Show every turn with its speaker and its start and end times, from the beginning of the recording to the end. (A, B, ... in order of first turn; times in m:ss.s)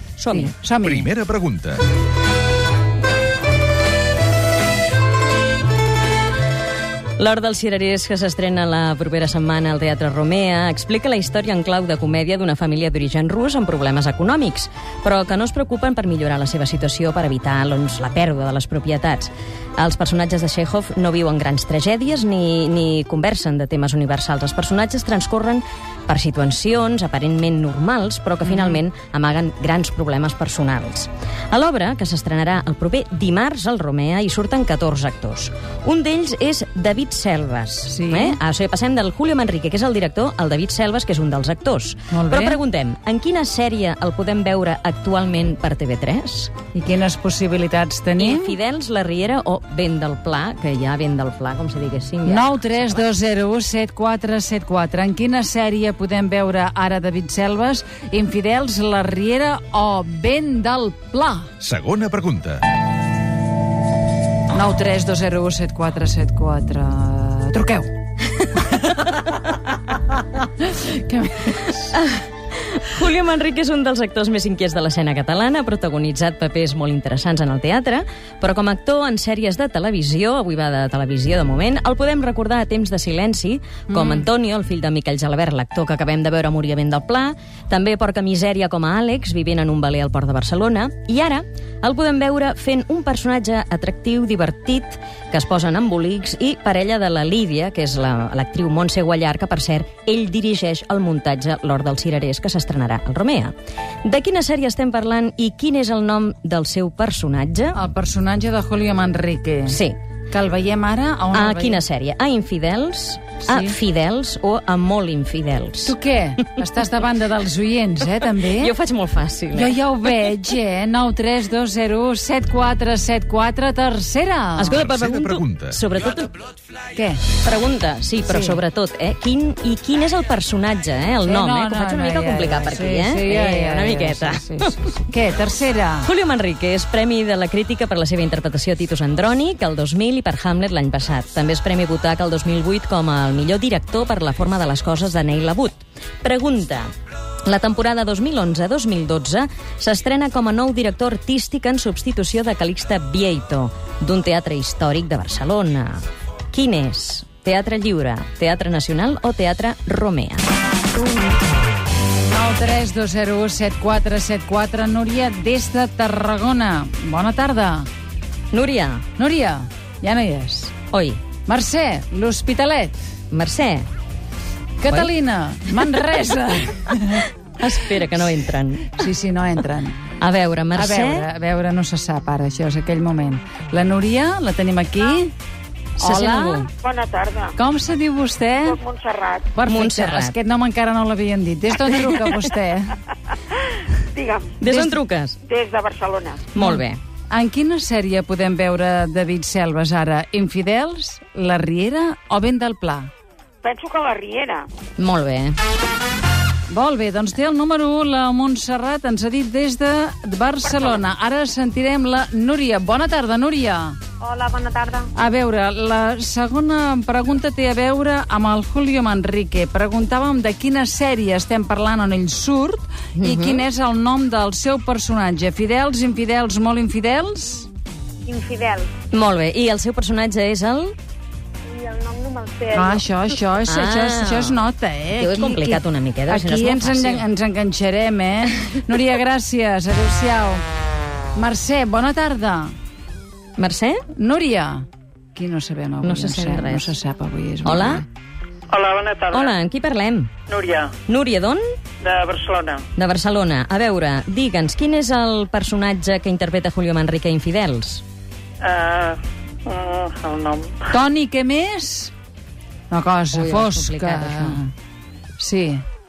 0:00.2-0:00.5 A
0:00.3-0:01.1 B
0:00.8-0:01.8 C
0:07.2-0:46.5 A
0:28.5-0:28.7 B
0:37.8-0:38.4 B
0:42.1-0:42.6 B
0:46.7-0:48.6 B
0:48.2-0:53.2 A
0:52.2-1:01.5 B
1:01.6-1:02.6 C
1:04.5-1:07.9 B
1:08.6-1:09.3 B
1:10.0-1:11.8 B
1:11.7-1:43.5 A
1:23.9-1:24.3 B
1:44.0-1:47.8 A
1:47.7-1:49.8 B
1:49.7-1:50.0 A
1:50.3-1:51.8 B
1:51.3-1:55.9 A
1:53.4-1:53.8 B
1:55.8-1:58.7 B
1:58.4-1:59.8 A
1:59.5-2:04.8 B
2:04.6-2:06.3 A
2:05.2-2:05.6 C
2:06.9-2:07.2 B
2:07.3-2:15.0 A
2:08.2-2:08.6 B
2:11.2-2:16.1 B
2:16.0-2:26.9 A
2:27.4-2:40.5 A
2:42.3-2:47.9 B
2:48.5-2:49.0 A
2:49.2-2:50.8 B
2:50.9-2:51.2 A
2:51.4-2:52.9 B
2:53.3-2:53.9 A
2:54.8-2:57.3 B
2:57.6-2:59.0 A
2:58.9-3:00.0 B
3:00.2-3:01.3 A
3:00.7-3:05.3 B
3:06.0-3:06.7 B
3:06.0-3:06.7 A
3:06.8-3:07.6 D
3:07.6-3:08.8 B
3:08.6-3:09.5 D
3:09.5-3:13.0 B
3:09.6-3:10.3 A
3:14.1-3:14.6 D
3:14.6-3:15.4 A
3:14.7-3:15.0 B
3:15.4-3:16.5 D
3:16.5-3:17.0 A
3:16.6-3:23.1 B
3:23.6-3:24.7 D
3:25.0-3:25.6 A
3:26.7-3:34.0 B
3:30.6-3:31.0 D
3:34.2-3:35.1 D
3:35.1-3:47.7 B
3:43.2-3:43.6 A
3:48.2-3:48.9 D
3:49.1-3:50.9 A
3:51.7-3:53.0 D
3:52.7-4:00.6 B
3:53.6-3:57.3 A
4:01.3-4:02.7 B
4:03.6-4:04.0 A
4:04.1-4:08.0 B
4:06.0-4:06.9 A
4:07.6-4:08.0 A
4:08.7-4:09.5 E
4:09.3-4:10.3 A
4:10.5-4:10.9 E
4:11.1-4:11.6 A
4:12.0-4:12.8 E
4:12.9-4:18.0 A
4:18.6-4:20.9 E
4:20.9-4:22.1 B
4:22.9-4:24.7 B
4:23.3-4:24.6 A
4:25.4-4:25.8 B